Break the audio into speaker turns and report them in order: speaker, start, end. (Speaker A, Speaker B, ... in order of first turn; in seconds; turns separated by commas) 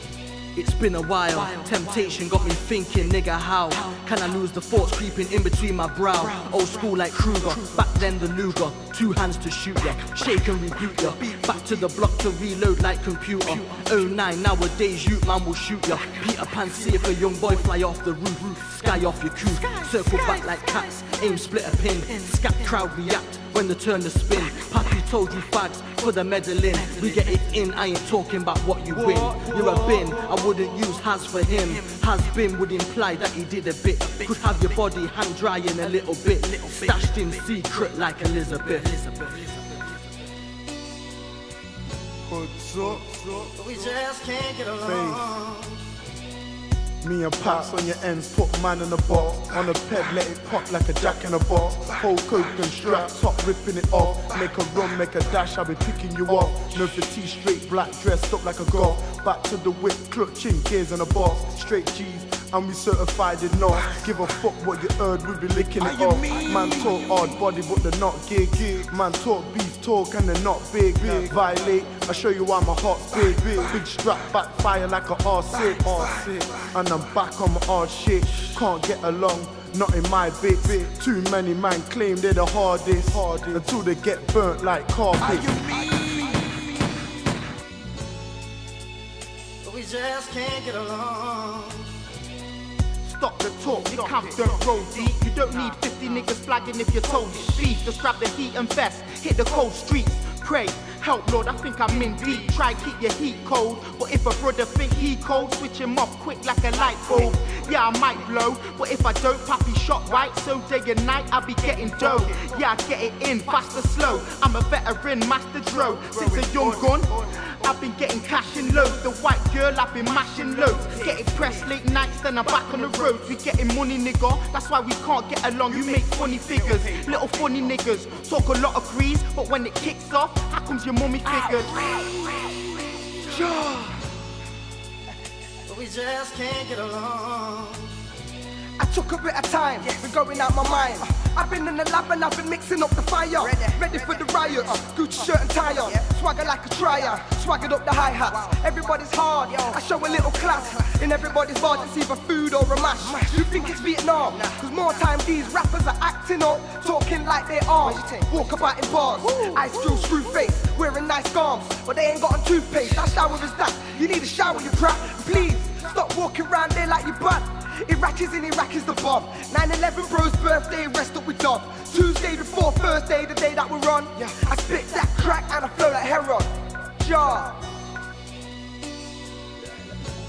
Speaker A: 0.5-39.8, Speaker B: 42.3-43.5, Speaker C: 43.4-45.8, Speaker B: 44.8-45.4, Speaker B: 47.0-85.6, Speaker C: 89.6-92.0, Speaker D: 93.0-132.0, Speaker E: 133.3-134.1, Speaker C: 135.7-138.0, Speaker E: 138.8-177.7